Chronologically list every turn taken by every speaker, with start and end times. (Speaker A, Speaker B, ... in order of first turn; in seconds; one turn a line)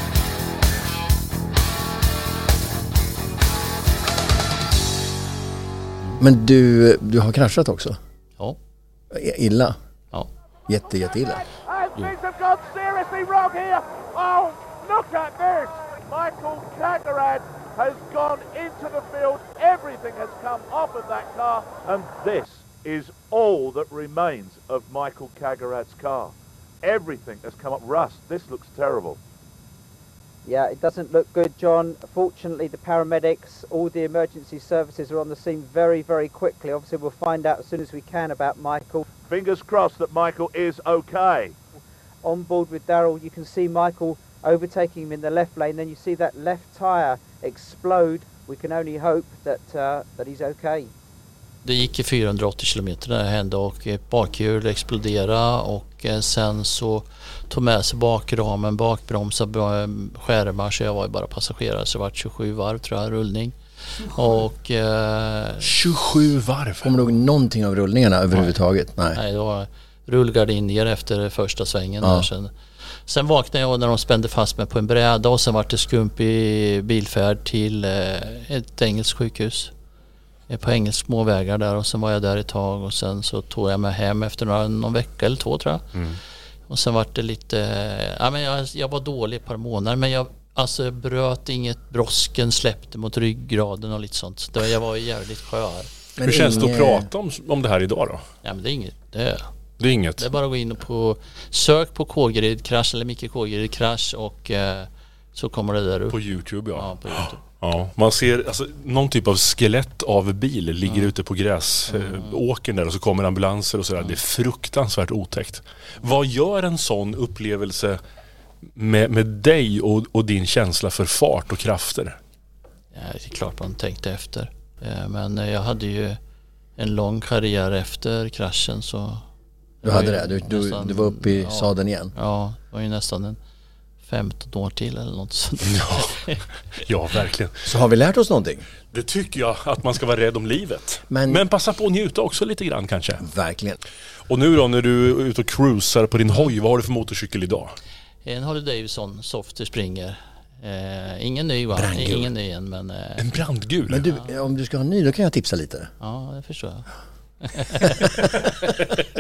Speaker A: 6.2-8.0
Speaker A: 9.1-9.8
Speaker A: 10.7-11.5
Speaker B: 11.6-29.2
Speaker C: 30.4-39.1
Speaker B: 39.2-41.5
Speaker C: 42.2-50.9
Speaker D: 51.6-63.6
Speaker D: 64.1-65.7
Speaker E: 65.6-66.9
Speaker A: 66.8-69.2
Speaker D: 69.2-72.5
Speaker A: 72.0-72.3
Speaker D: 73.1-79.7
Speaker D: 80.5-86.0
Speaker D: 86.7-95.9
Speaker A: 96.2-97.1
Speaker E: 96.2-98.2
Speaker D: 98.4-99.5
Speaker E: 99.8-100.3
Speaker D: 100.2-106.2
Speaker E: 106.1-118.0
Speaker D: 106.7-107.5
Speaker D: 110.9-111.1
Speaker D: 111.9-112.4
Speaker E: 118.8-122.2
Speaker D: 122.9-126.2
Speaker D: 126.8-129.2
Speaker A: 129.8-132.1
Speaker D: 129.8-133.4
Speaker D: 134.0-136.4
Speaker E: 135.7-136.1
Speaker E: 136.8-137.6
Speaker A: 137.7-138.7
Speaker E: 138.9-143.2
Speaker A: 141.1-141.4
Speaker A: 143.2-143.8
Speaker E: 144.3-147.7
Speaker D: 148.2-153.3
Speaker A: 151.8-152.3
Speaker E: 153.2-154.0
Speaker A: 153.9-155.9
Speaker D: 156.0-156.9
Speaker D: 157.4-158.1
Speaker A: 157.8-158.4